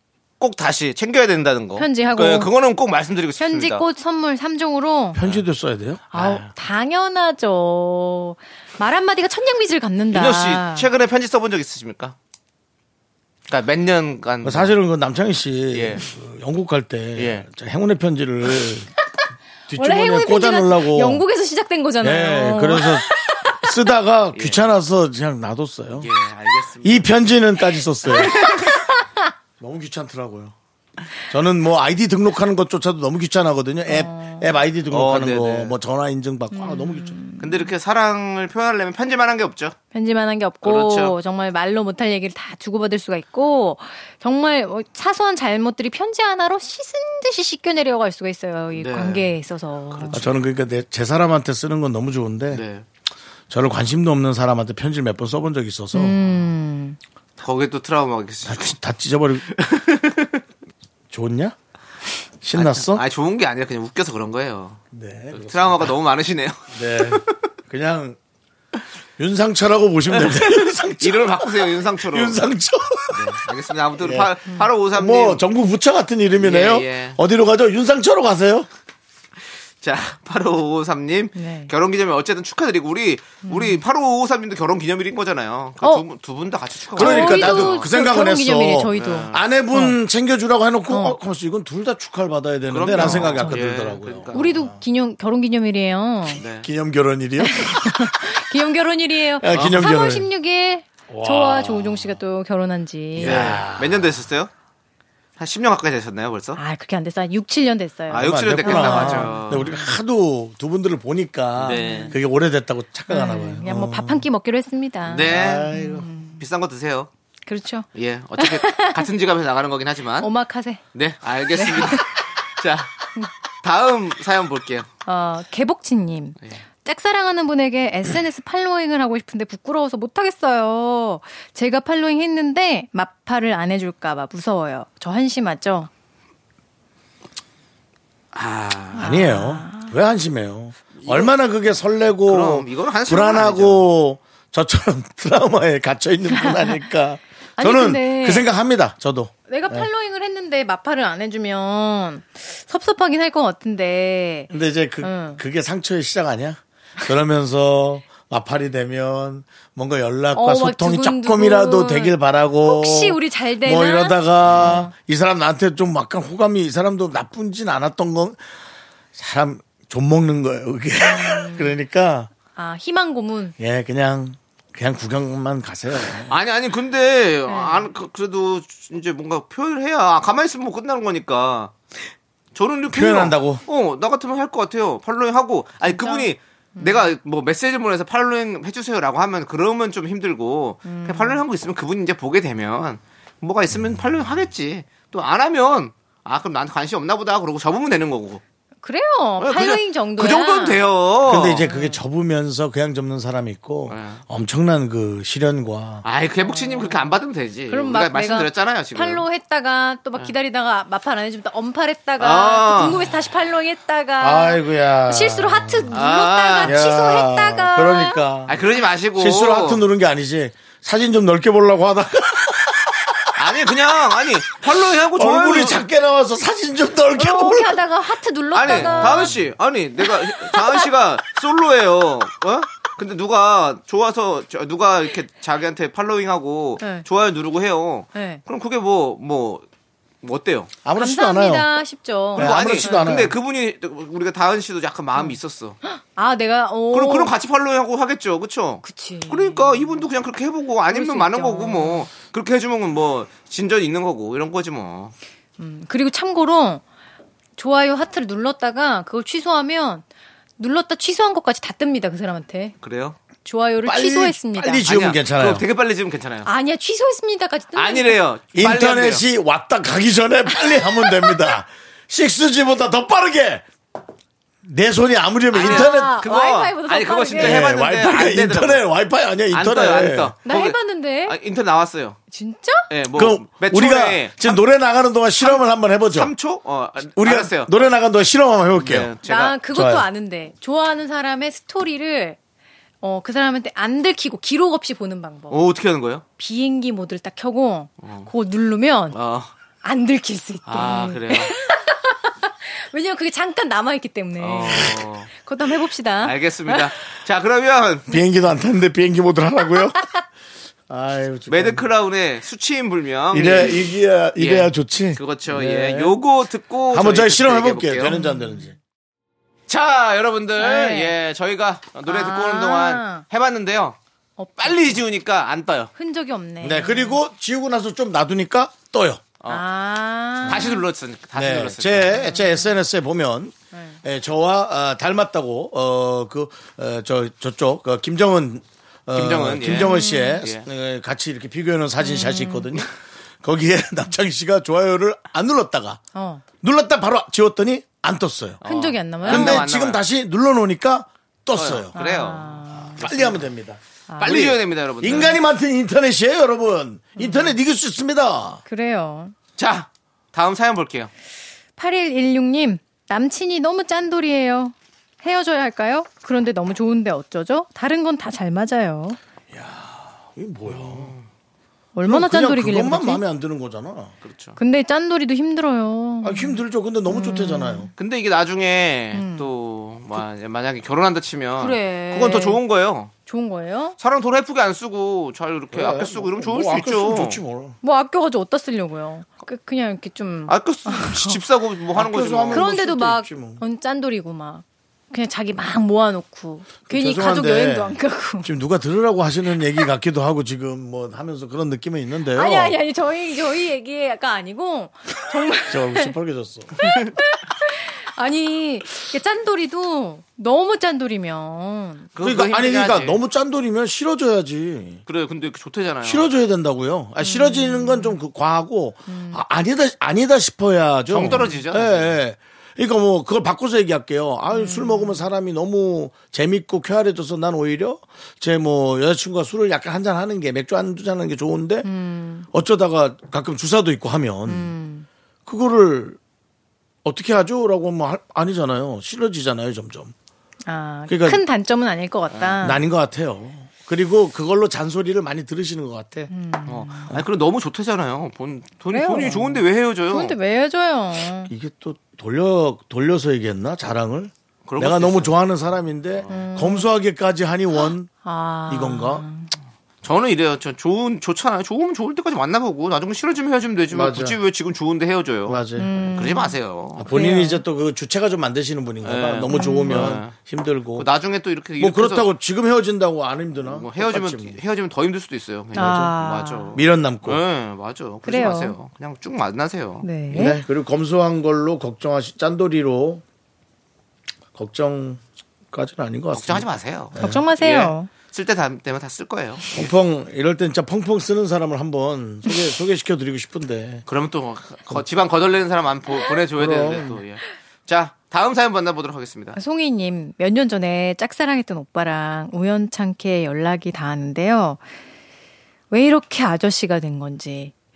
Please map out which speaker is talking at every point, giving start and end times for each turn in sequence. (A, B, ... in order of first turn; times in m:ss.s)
0:00.4-0:03.8 A
0:01.8-0:02.5 B
0:03.4-0:05.2 B
0:05.1-0:06.1 C
0:06.1-0:10.9 B
0:06.1-0:06.5 A
0:10.1-0:12.2 A
0:13.5-0:14.8 A
0:14.4-0:18.9 C
0:15.7-0:16.0 A
0:17.2-0:17.4 A
0:19.7-0:21.2 C
0:19.7-0:23.8 B
0:22.0-0:26.1 C
0:24.3-0:24.6 A
0:25.9-0:27.1 A
0:26.8-0:28.6 C
0:28.1-0:29.2 B
0:29.6-0:30.5 C
0:31.3-0:37.2 C
0:33.9-0:34.6 B
0:34.9-0:35.8 A
0:36.5-0:37.7 B
0:37.4-0:39.8 A
0:39.9-0:50.2 B
0:40.6-0:41.2 A
0:48.7-0:49.3 A
0:49.9-0:50.4 A
0:50.1-0:52.6 C
0:52.5-0:52.8 A
0:53.5-0:56.2 C
0:55.9-0:57.0 B
0:57.4-0:58.8 A
0:58.4-0:59.5 C
0:59.5-1:00.4 A
1:01.1-1:01.6 C
1:02.4-1:03.0 C
1:02.5-1:04.8 A
1:04.9-1:05.9 C
1:05.3-1:07.4 A
1:06.7-1:08.2 C
1:09.2-1:13.4 C
1:10.1-1:12.4 A
1:13.1-1:15.4 A
1:14.0-1:14.3 C
1:14.9-1:18.7 C
1:16.4-1:17.2 A
1:19.8-1:27.9 A
1:21.3-1:21.7 B
1:23.4-1:23.8 B
1:26.9-1:30.0 B
1:27.0-1:34.8 C
1:28.9-1:29.4 A
1:30.9-1:31.2 B
1:32.7-1:34.5 A
1:33.0-1:33.6 B
1:34.3-1:36.4 B
1:36.3-1:38.3 C
1:36.4-1:36.7 A
1:37.4-1:43.6 B
1:39.4-1:40.3 C
1:39.5-1:39.8 A
1:41.1-1:42.2 C
1:43.2-1:44.2 C
1:43.2-1:44.5 A
1:45.4-1:46.6 A
1:46.6-1:49.9 B
1:48.1-1:49.7 A
1:48.1-1:54.2 C
1:51.6-1:52.1 A
1:51.7-1:52.2 B
1:53.1-1:56.4 B
1:55.0-1:55.7 A
1:55.2-1:56.1 C
1:56.4-1:57.1 A
1:57.4-1:57.9 B
1:57.9-2:00.3 A
1:58.4-1:59.1 B
2:00.2-2:00.8 B
2:00.9-2:03.0 A
2:01.5-2:02.3 B
2:03.6-2:04.9 A
2:05.0-2:15.9 B
2:18.3-2:19.2 A
2:19.0-2:19.9 B
2:19.0-2:29.9 C
2:20.9-2:21.3 A
2:22.2-2:23.9 A
2:26.3-2:26.8 B
2:27.6-2:28.5 B
2:29.5-2:35.4 B
2:34.5-2:48.4 C
2:40.3-2:44.9 B
2:44.4-2:44.8 A
2:49.1-2:52.3 C
2:51.0-2:51.7 B
2:52.5-2:53.5 B
2:53.6-2:56.3 C
2:56.3-3:01.7 A
2:57.5-2:57.8 B
3:02.5-3:18.4 A
3:02.9-3:03.6 C
3:05.8-3:07.1 B
3:10.8-3:11.4 B
3:18.8-3:20.8 B
3:19.4-3:21.7 A
3:21.2-3:26.0 C
3:21.5-3:22.0 B
3:23.9-3:24.2 A
3:26.0-3:29.2 A
3:26.4-3:27.2 B
3:27.7-3:38.2 B
3:32.2-3:33.0 A
3:34.2-3:35.9 C
3:35.9-3:36.8 A
3:36.6-3:38.6 C
3:38.5-3:39.8 A
3:39.1-3:43.3 C
3:43.3-3:45.8 A
3:45.1-3:47.8 C
3:47.1-3:49.4 B
3:48.5-3:59.6 A
3:48.7-3:49.4 C
3:50.0-3:50.9 B
3:56.8-3:57.0 B
3:58.1-3:58.4 B
4:00.2-4:00.7 A
4:00.8-4:01.7 C
4:01.0-4:03.2 B
4:02.3-4:03.3 C
4:02.3-4:05.8 A
4:05.1-4:07.4 B
4:06.9-4:15.1 A
4:08.8-4:09.9 B
4:10.9-4:12.1 B
4:15.6-4:16.8 B
4:17.6-4:20.0 B
4:20.6-4:22.8 B
4:22.8-4:23.2 A
4:23.4-4:24.9 B
4:23.8-4:25.6 C
4:24.8-4:26.5 A
4:26.4-4:28.2 B
4:27.7-4:29.2 A
4:28.5-4:33.6 C
4:30.6-4:31.4 B
4:34.6-4:36.2 C
4:35.5-4:38.8 A
4:35.6-4:37.7 B
4:37.4-4:40.3 C
4:39.5-4:42.2 A
4:40.4-4:41.4 B
4:42.3-4:42.9 B
4:42.9-4:44.6 A
4:43.1-4:46.3 C
4:46.1-4:47.7 A
4:47.0-4:49.1 C
4:48.8-4:49.6 A
4:49.2-4:52.4 B
4:49.7-4:50.0 C
4:53.0-4:55.6 B
4:55.5-4:56.2 A
4:56.4-4:59.2 B
4:58.0-4:58.3 A
4:59.1-4:59.5 A
4:59.8-5:06.9 B
5:00.6-5:01.5 A
5:04.4-5:05.3 A
5:06.2-5:08.1 A
5:08.1-5:10.1 C
5:10.9-5:11.8 C
5:11.5-5:18.2 A
5:13.3-5:16.2 C
5:16.9-5:18.8 C
5:18.1-5:18.6 B
5:19.7-5:24.0 A
5:20.6-5:21.1 B
5:22.0-5:23.2 B
5:24.4-5:25.0 B
5:24.6-5:25.9 A
5:26.0-5:27.2 B
5:26.6-5:29.2 C
5:29.5-5:30.8 B
5:30.4-5:32.2 A
5:31.3-5:42.9 C
5:32.1-5:32.7 B
5:33.7-5:34.0 B
5:39.1-5:40.6 A
5:39.6-5:40.5 B
5:42.0-5:42.7 B
5:43.4-5:46.0 C
5:46.1-5:46.4 B
5:46.6-5:48.6 C
5:48.6-5:50.0 A
5:48.6-5:49.6 B
5:49.2-5:51.9 C
5:51.5-5:52.6 A
5:51.9-5:53.4 B
5:52.8-5:58.6 C
5:54.1-5:54.4 B
5:54.2-5:55.4 A
5:57.2-5:57.6 B
5:58.6-5:59.3 B
5:59.6-6:01.1 A
6:01.8-6:09.2 B
6:09.5-6:11.2 C
6:10.6-6:11.3 A
6:11.9-6:13.2 B
6:12.0-6:14.1 C
6:14.2-6:14.6 A
6:14.6-6:17.9 B
6:16.2-6:17.9 C
6:18.0-6:23.1 A
6:19.1-6:19.5 B
6:21.6-6:22.6 B
6:23.2-6:23.9 B
6:24.0-6:27.4 A
6:25.7-6:27.8 C
6:27.8-6:31.4 B
6:30.5-6:32.7 A
6:31.9-6:33.6 C
6:32.5-6:38.5 B
6:36.9-6:42.8 C
6:42.3-6:46.1 B
6:45.7-6:46.7 C
6:46.8-6:52.1 B
6:52.1-6:53.2 A
6:52.2-6:55.0 C
6:55.0-6:56.3 A
6:56.0-7:11.9 C
6:57.2-6:58.2 B
6:59.1-6:59.4 B
7:01.1-7:02.1 A
7:04.5-7:05.2 B
7:11.8-7:12.5 B
7:12.5-7:14.7 C
7:14.5-7:15.0 B
7:15.4-7:16.2 C
7:17.0-7:20.1 C
7:20.6-7:22.8 B
7:21.1-7:21.4 C
7:22.3-7:22.6 A
7:22.6-7:26.3 C
7:26.3-7:27.1 B
7:26.7-7:30.4 A
7:28.9-7:31.5 B
7:31.5-7:38.1 C
7:34.6-7:35.4 A
7:36.3-7:36.9 B
7:38.2-7:39.5 B
7:38.7-7:39.2 C
7:40.0-7:47.1 A
7:43.9-7:44.4 C
7:45.4-7:45.9 C
7:45.8-7:47.6 B
7:47.0-7:51.1 C
7:49.0-7:50.3 A
7:49.5-7:50.2 B
7:51.0-7:52.3 A
7:51.8-7:54.6 C
7:53.6-8:00.1 A
7:55.7-7:56.2 C
7:55.8-7:56.8 B
7:56.7-7:57.4 C
7:58.2-7:58.8 B
8:00.0-8:00.6 B
8:00.3-8:03.2 C
8:04.5-8:07.4 C
8:06.3-8:09.9 A
8:07.2-8:08.1 B
8:09.7-8:14.0 C
8:14.1-8:19.6 A
8:16.6-8:17.2 C
8:19.5-8:24.8 B
8:25.9-8:27.7 B